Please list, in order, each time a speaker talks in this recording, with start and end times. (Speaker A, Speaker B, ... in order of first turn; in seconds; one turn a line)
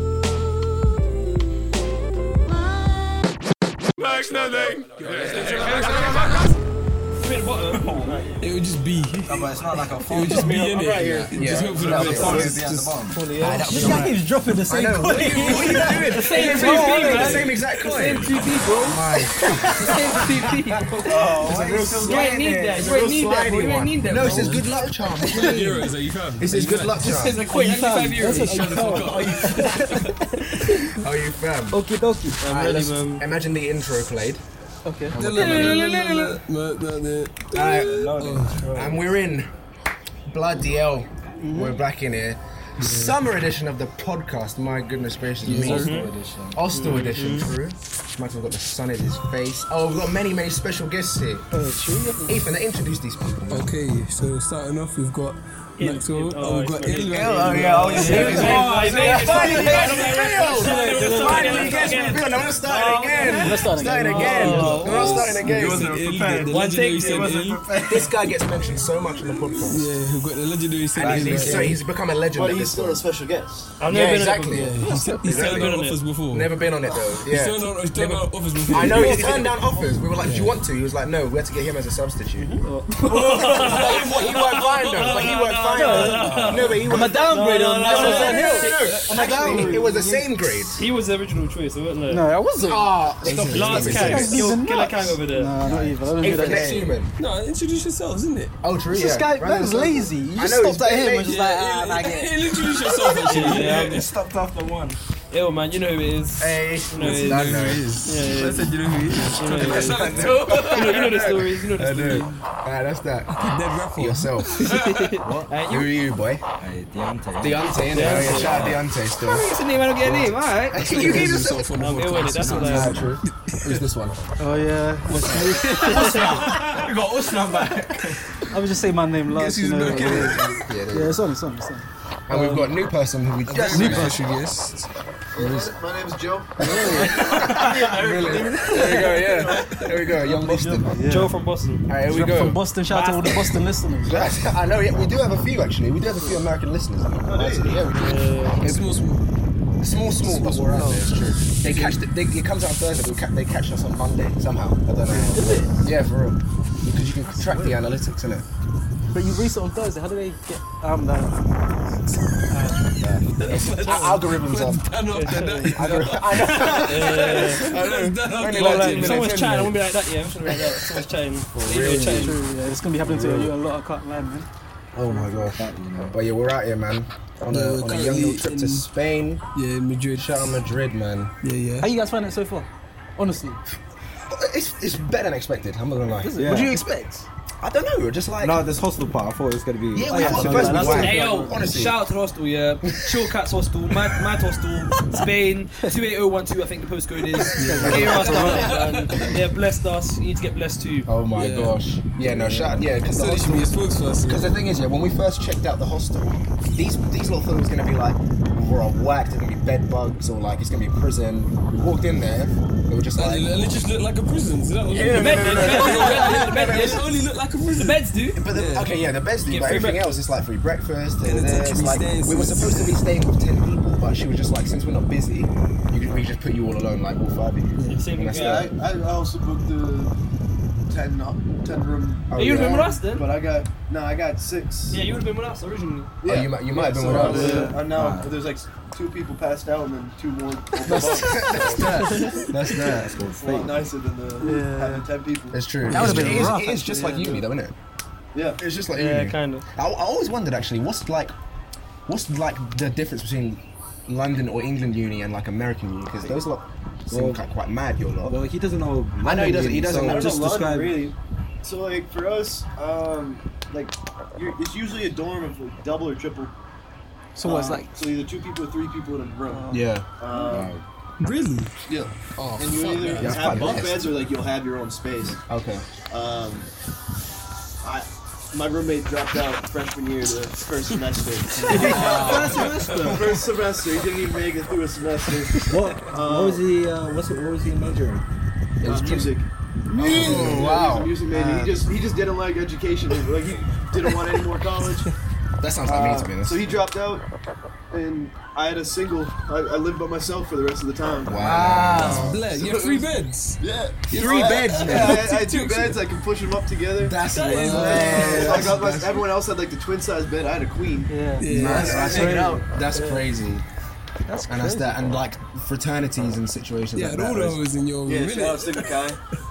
Speaker A: 4.0-6.3
Speaker B: 5.0-6.2
Speaker C: 5.5-6.4
Speaker C: 7.2-8.0
Speaker B: 7.7-8.3
Speaker A: 8.4-12.6
Speaker B: 9.2-14.1
Speaker D: 10.3-12.6
Speaker E: 11.3-27.5
Speaker C: 13.2-13.8
Speaker F: 13.5-17.5
Speaker C: 16.0-21.4
Speaker A: 17.0-18.2
Speaker F: 19.4-19.9
Speaker B: 21.0-22.9
Speaker C: 22.0-24.6
Speaker A: 24.2-24.6
Speaker A: 25.2-27.1
Speaker C: 27.0-30.1
Speaker F: 27.5-30.9
Speaker A: 27.6-30.1
Speaker E: 30.8-31.8
Speaker F: 31.7-32.4
Speaker C: 32.4-33.2
Speaker E: 32.4-34.4
Speaker F: 34.8-36.3
Speaker E: 35.1-36.0
Speaker A: 35.2-38.7
Speaker E: 37.5-38.0
Speaker B: 37.7-39.0
Speaker E: 38.7-39.5
Speaker E: 40.3-46.0
Speaker F: 41.4-41.8
Speaker A: 42.8-43.1
Speaker B: 45.4-46.6
Speaker C: 45.6-46.1
Speaker E: 46.5-51.5
Speaker C: 46.7-47.5
Speaker F: 51.5-52.4
Speaker E: 52.2-53.7
Speaker A: 53.5-62.2
Speaker C: 55.8-65.4
Speaker E: 57.1-66.0
Speaker B: 57.5-59.2
Speaker F: 58.0-59.7
Speaker F: 63.2-64.9
Speaker A: 64.2-67.6
Speaker D: 65.0-68.1
Speaker C: 66.5-67.5
Speaker E: 67.8-69.9
Speaker A: 69.7-71.8
Speaker E: 71.0-73.0
Speaker B: 71.0-71.8
Speaker D: 72.3-73.8
Speaker C: 73.8-76.0
Speaker E: 73.9-75.7
Speaker A: 74.5-76.5
Speaker F: 74.8-75.2
Speaker E: 76.3-90.9
Speaker A: 77.2-79.4
Speaker C: 78.7-79.9
Speaker A: 80.2-80.5
Speaker C: 82.4-89.7
Speaker A: 83.1-86.7
Speaker F: 85.8-86.1
Speaker B: 86.2-86.5
Speaker F: 86.8-90.4
Speaker D: 87.9-88.5
Speaker A: 88.6-89.1
Speaker C: 90.7-92.3
Speaker F: 92.1-93.0
Speaker E: 92.6-94.5
Speaker A: 93.2-94.2
Speaker C: 93.4-95.6
Speaker F: 93.9-96.9
Speaker B: 95.6-96.3
Speaker E: 96.2-97.1
Speaker A: 96.5-98.5
Speaker E: 98.6-101.3
Speaker F: 98.9-103.1
Speaker A: 101.2-104.1
Speaker C: 103.3-104.1
Speaker B: 103.3-105.0
Speaker C: 105.3-108.7
Speaker E: 106.4-107.9
Speaker A: 107.0-111.3
Speaker C: 109.2-112.3
Speaker B: 109.5-110.5
Speaker E: 110.6-114.8
Speaker A: 113.4-115.2
Speaker C: 114.5-115.9
Speaker B: 115.2-115.6
Speaker E: 115.6-116.4
Speaker B: 116.6-118.8
Speaker E: 117.4-119.5
Speaker C: 117.9-123.1
Speaker A: 118.2-118.8
Speaker E: 120.0-121.7
Speaker A: 120.7-123.8
Speaker B: 122.4-123.2
Speaker E: 122.4-124.2
Speaker F: 124.4-126.3
Speaker C: 125.7-126.7
Speaker B: 125.7-128.2
Speaker F: 128.5-131.8
Speaker A: 129.3-130.6
Speaker E: 129.9-131.2
Speaker E: 132.3-134.3
Speaker A: 132.3-132.6
Speaker A: 133.5-134.9
Speaker D: 135.3-139.9
Speaker A: 135.4-135.7
Speaker F: 136.6-137.7
Speaker E: 136.6-140.9
Speaker A: 137.3-137.7
Speaker F: 138.3-139.1
Speaker C: 138.6-139.2
Speaker C: 140.2-141.9
Speaker F: 140.9-141.3
Speaker E: 141.9-142.6
Speaker F: 142.1-144.2
Speaker C: 142.8-143.5
Speaker E: 144.0-149.0
Speaker D: 147.2-147.9
Speaker C: 147.9-148.7
Speaker A: 148.5-149.2
Speaker E: 149.8-158.4
Speaker F: 150.5-151.0
Speaker A: 151.7-152.0
Speaker F: 155.1-155.7
Speaker F: 157.4-157.7
Speaker F: 159.1-161.6
Speaker C: 162.5-162.9
Speaker A: 163.4-169.6
Speaker E: 163.4-169.7
Speaker C: 163.6-164.2
Speaker C: 165.2-165.8
Speaker C: 166.4-172.4
Speaker E: 170.4-171.0
Speaker E: 171.5-172.3
Speaker F: 171.8-174.5
Speaker B: 171.8-172.1
Speaker E: 173.0-173.5
Speaker E: 174.9-179.4
Speaker F: 175.0-175.5
Speaker B: 175.5-176.2
Speaker A: 177.5-178.9
Speaker A: 179.5-180.5
Speaker E: 180.2-181.3
Speaker A: 181.4-181.9
Speaker F: 181.8-183.6
Speaker E: 184.3-186.8
Speaker F: 186.2-187.2
Speaker B: 186.3-186.8
Speaker E: 187.6-188.6
Speaker B: 188.4-191.2
Speaker E: 189.9-192.0
Speaker F: 190.1-191.5
Speaker C: 190.2-201.1
Speaker E: 192.8-193.2
Speaker F: 197.3-198.8
Speaker A: 197.5-199.3
Speaker E: 197.8-198.6
Speaker D: 198.4-199.3
Speaker E: 201.1-213.5
Speaker A: 201.3-201.8
Speaker B: 202.4-202.7
Speaker A: 202.8-204.5
Speaker A: 213.1-218.9
Speaker E: 214.9-217.1
Speaker C: 215.1-217.1
Speaker B: 215.1-215.7
Speaker C: 217.7-218.6
Speaker E: 218.3-228.7
Speaker C: 219.4-220.2
Speaker A: 221.2-223.0
Speaker C: 227.9-228.7
Speaker D: 228.3-230.1
Speaker D: 230.9-235.0
Speaker E: 232.3-233.0
Speaker C: 232.3-233.3
Speaker C: 234.9-236.2
Speaker D: 236.2-241.9
Speaker E: 236.2-237.7
Speaker F: 237.1-237.9
Speaker B: 237.1-238.4
Speaker E: 240.8-243.1
Speaker C: 242.0-242.4
Speaker B: 242.8-243.9
Speaker D: 243.1-247.0
Speaker F: 244.4-245.1
Speaker E: 245.5-247.7
Speaker F: 245.8-247.4
Speaker B: 245.9-246.5
Speaker D: 248.3-248.6
Speaker E: 248.6-251.3
Speaker C: 248.9-249.6
Speaker E: 252.1-258.4
Speaker B: 257.1-257.4
Speaker B: 258.2-261.1
Speaker E: 259.2-260.5
Speaker D: 259.8-266.5
Speaker F: 267.4-267.9
Speaker D: 267.4-270.8
Speaker F: 269.5-269.8
Speaker E: 269.7-270.1
Speaker B: 270.3-270.8
Speaker A: 271.2-271.7
Speaker D: 271.9-275.4
Speaker A: 272.4-273.6
Speaker E: 273.1-274.2
Speaker E: 275.5-275.8
Speaker D: 276.1-276.7
Speaker D: 277.8-286.6
Speaker E: 281.6-283.0
Speaker B: 281.7-283.4
Speaker F: 281.8-282.8
Speaker B: 285.6-288.2
Speaker E: 288.8-289.4
Speaker D: 288.8-295.1
Speaker E: 290.0-291.1
Speaker B: 290.1-290.6
Speaker F: 290.2-290.4
Speaker F: 291.3-291.8
Speaker E: 295.6-296.7
Speaker D: 295.8-297.2
Speaker D: 297.9-301.5
Speaker E: 301.2-302.4
Speaker B: 301.4-302.3
Speaker F: 301.4-302.3
Speaker D: 302.1-312.8
Speaker A: 302.1-306.0
Speaker E: 304.2-305.3
Speaker B: 304.4-305.1
Speaker E: 307.0-309.2
Speaker A: 307.3-308.7
Speaker F: 311.1-312.6
Speaker A: 311.4-312.4
Speaker E: 311.4-313.6
Speaker C: 312.9-313.2
Speaker F: 314.2-315.2
Speaker E: 314.5-317.6
Speaker A: 316.9-319.1
Speaker D: 318.1-319.2